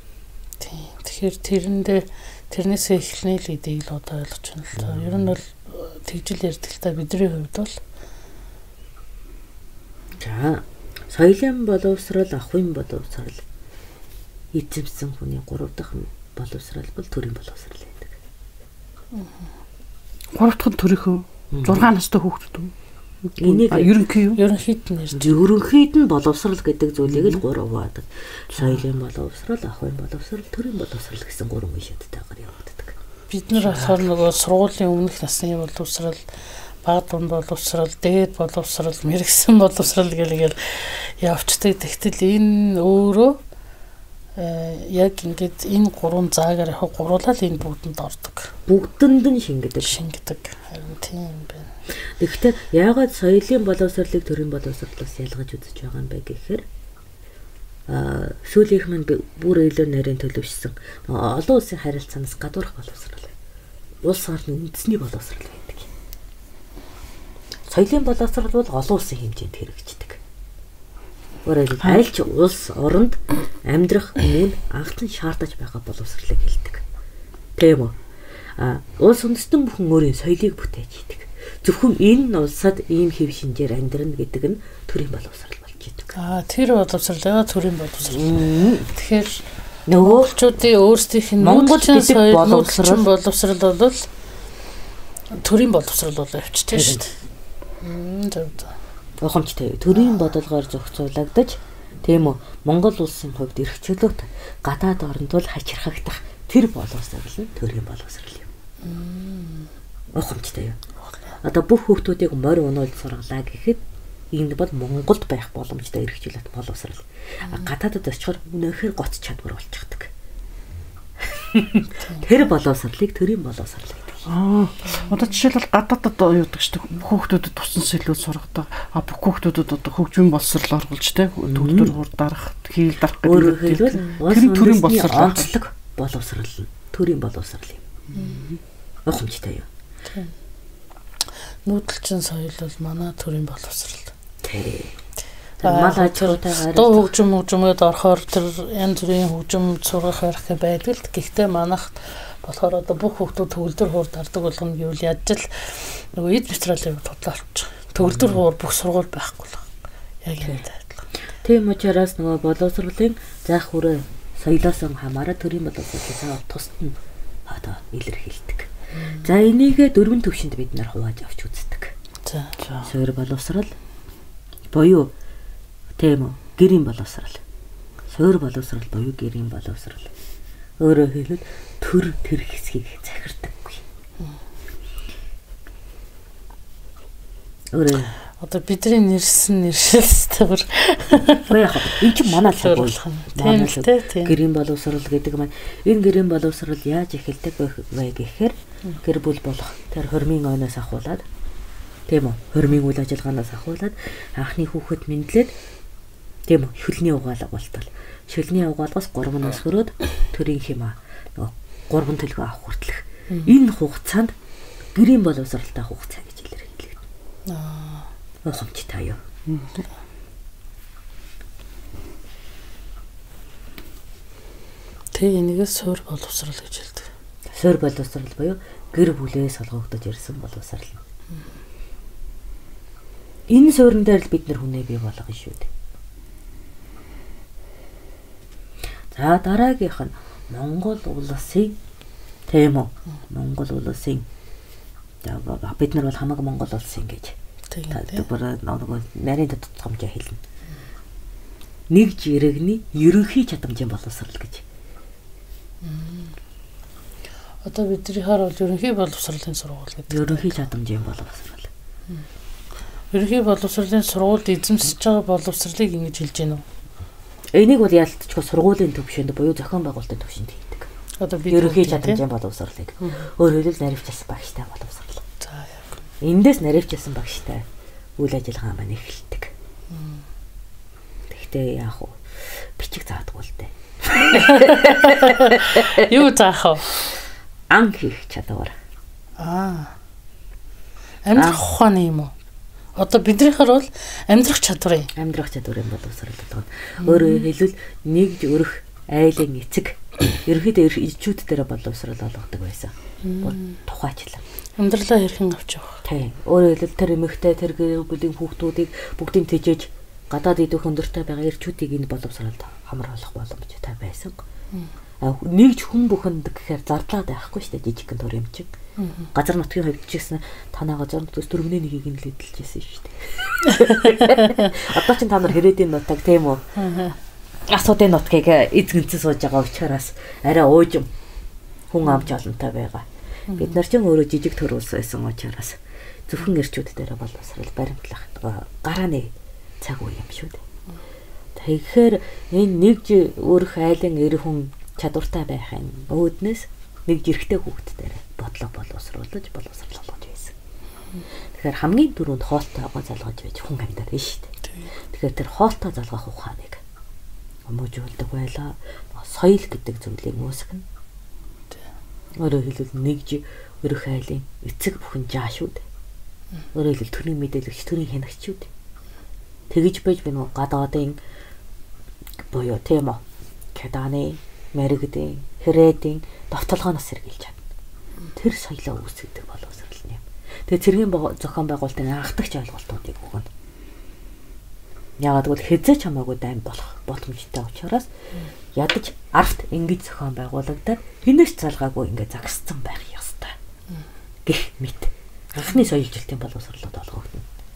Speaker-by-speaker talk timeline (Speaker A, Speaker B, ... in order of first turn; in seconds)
Speaker A: 0.6-7.8, 24.4-25.4, 33.3-36.2, 36.8-43.4, 44.4-48.5, 49.8-51.7, 86.1-89.5, 90.0-94.1, 95.3-97.2, 97.8-98.8, 108.8-109.7, 122.0-122.3, 138.1-138.4, 141.7-144.1, 145.6-159.7, 160.2-161.1, 169.0-169.3, 172.2-172.6, 188.4-194.3, 217.5-218.1, 225.1-227.1, 247.7-248.3, 255.8-256.4, 257.6-260.6, 263.1-266.6, 271.2-272.2, 273.0-273.3, 275.4-276.0, 279.9-280.2, 284.3-286.9, 289.4-289.9, 291.2-292.3, 293.0-295.1, 297.0-297.4, 303.2-303.8, 304.8-306.0, 319.0-319.3, 324.4-324.6, 326.8-327.2, 333.5-333.8
Speaker B: 4.8-5.4, 10.2-13.4, 14.5-18.2, 21.5-21.9, 23.4-23.9, 25.2-33.0, 33.6-34.0, 48.7-50.0, 52.2-56.6, 57.9-63.3, 64.0-65.9, 67.7-70.2, 71.5-76.8, 77.6-78.0, 78.6-86.1, 88.1-88.9, 89.9-90.3, 91.4-93.1, 96.7-97.0, 99.2-108.5, 110.1-110.8, 111.4-113.8, 114.3-120.1, 121.2-124.2, 131.5-132.0, 133.2-137.8, 139.1-139.7, 144.4-145.0, 145.6-147.1, 158.0-158.4, 161.4-171.9, 172.8-173.7, 174.7-175.1, 176.0-177.4, 178.1-180.1, 180.8-183.8, 187.7-188.1, 191.4-201.2, 202.1-205.5, 206.5-214.3, 214.9-217.0, 218.4-219.2, 227.5-231.0, 233.5-235.7, 239.1-241.8, 242.5-244.3, 245.2-247.4, 247.9-250.4, 251.9-254.6, 260.1-261.7, 267.5-270.9, 271.5-275.2, 276.2-277.7, 278.2-279.5, 281.3-286.2, 287.7-288.8, 291.4-291.6, 295.1-304.4, 306.0-314.4, 315.2-318.7, 319.4-326.7, 327.7-331.1, 331.9-340.6, 341.6-350.5, 351.5-354.5, 355.1-356.8, 357.7-360.9, 362.4-365.8, 366.7-368.7, 369.7-371.2, 372.5-373.2, 373.7-377.6, 378.4-383.5, 385.2-388.1, 388.7-393.6, 394.4-397.4
Speaker C: 20.3-22.7, 23.3-24.4, 27.1-27.4, 124.3-135.6, 138.1-138.6, 172.6-172.9